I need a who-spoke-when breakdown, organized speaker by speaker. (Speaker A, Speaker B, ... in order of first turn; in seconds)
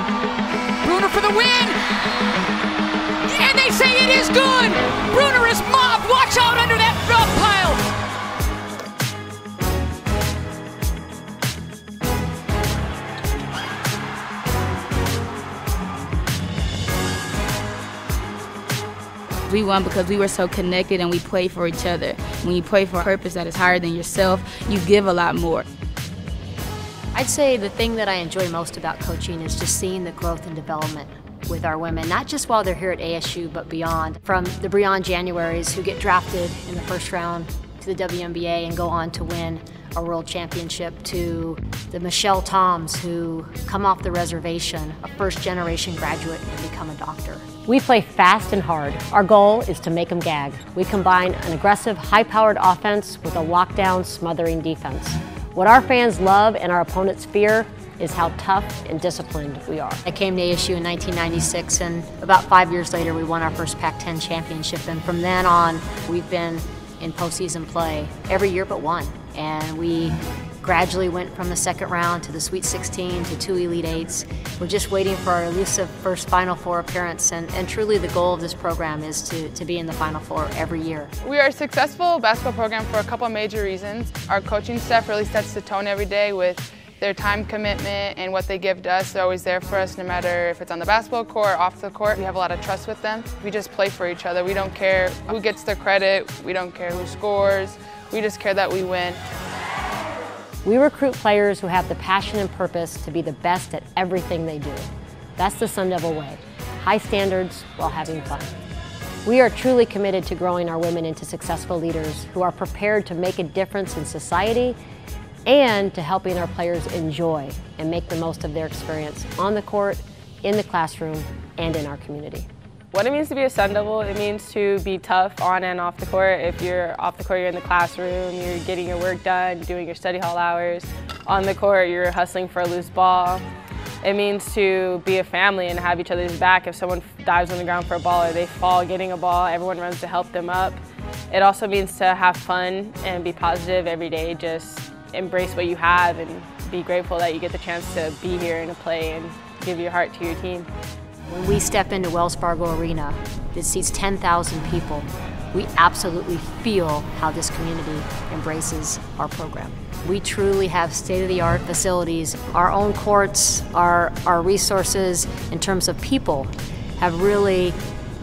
Speaker A: 0.8-1.8, 3.2-7.8
Speaker B: 19.5-25.6
Speaker C: 27.1-47.5, 60.0-81.1, 151.3-167.8
Speaker D: 47.6-60.0, 100.6-108.5, 109.2-114.8, 115.5-122.5
Speaker E: 81.2-99.2
Speaker F: 122.9-133.4, 134.0-150.7